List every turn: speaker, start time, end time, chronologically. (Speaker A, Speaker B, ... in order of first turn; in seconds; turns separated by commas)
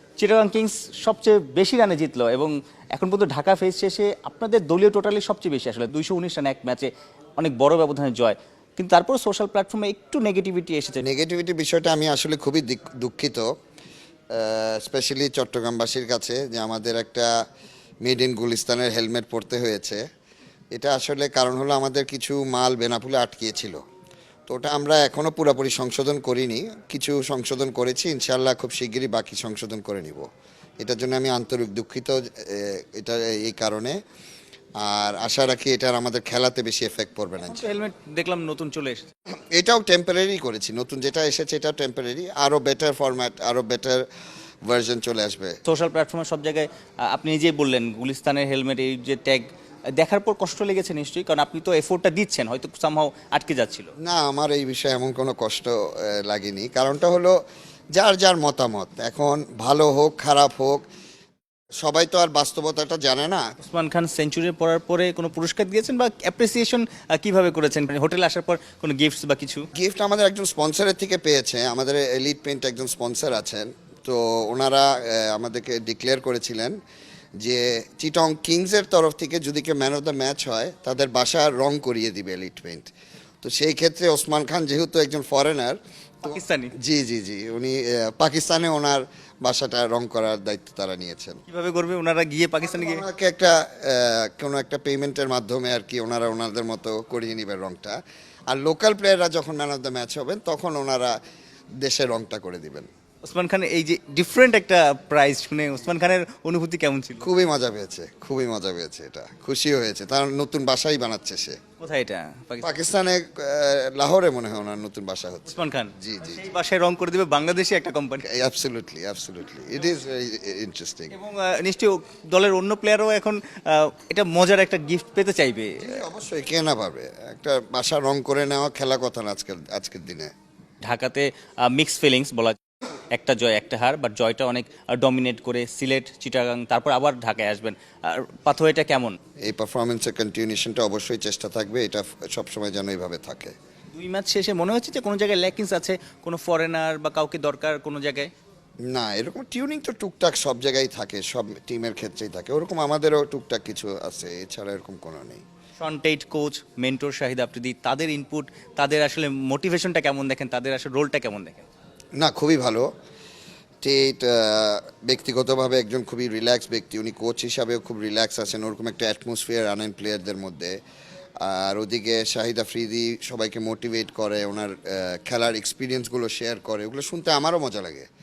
Speaker A: 0.2-11.0, Speaker B: 11.0-13.5, Speaker B: 14.3-17.3, Speaker B: 18.0-20.0, Speaker B: 20.7-23.8, Speaker B: 24.5-30.3, Speaker B: 30.8-34.0, Speaker B: 34.8-37.7, Speaker A: 37.5-39.1, Speaker B: 39.5-44.0, Speaker B: 44.7-45.6, Speaker A: 45.6-49.5, Speaker A: 50.0-53.9, Speaker B: 54.0-57.4, Speaker B: 57.9-60.8, Speaker B: 61.8-63.5, Speaker A: 63.6-69.7, Speaker B: 69.8-76.8, Speaker B: 77.4-82.9, Speaker B: 83.4-91.4, Speaker A: 86.2-86.7, Speaker A: 91.5-93.0, Speaker B: 92.6-98.0, Speaker B: 98.5-101.2, Speaker B: 101.8-102.9, Speaker A: 103.2-107.2, Speaker B: 107.2-111.6, Speaker A: 111.8-112.7, Speaker B: 112.6-116.5, Speaker A: 115.5-118.2, Speaker B: 118.2-121.2, Speaker A: 121.1-126.0, Speaker B: 125.8-130.3, Speaker A: 130.8-132.6, Speaker A: 133.1-139.2, Speaker B: 139.4-143.6, Speaker A: 143.9-148.3, Speaker B: 148.9-155.4, Speaker A: 155.8-161.7, Speaker B: 162.2-162.9, Speaker B: 163.8-170.8, Speaker B: 171.4-178.1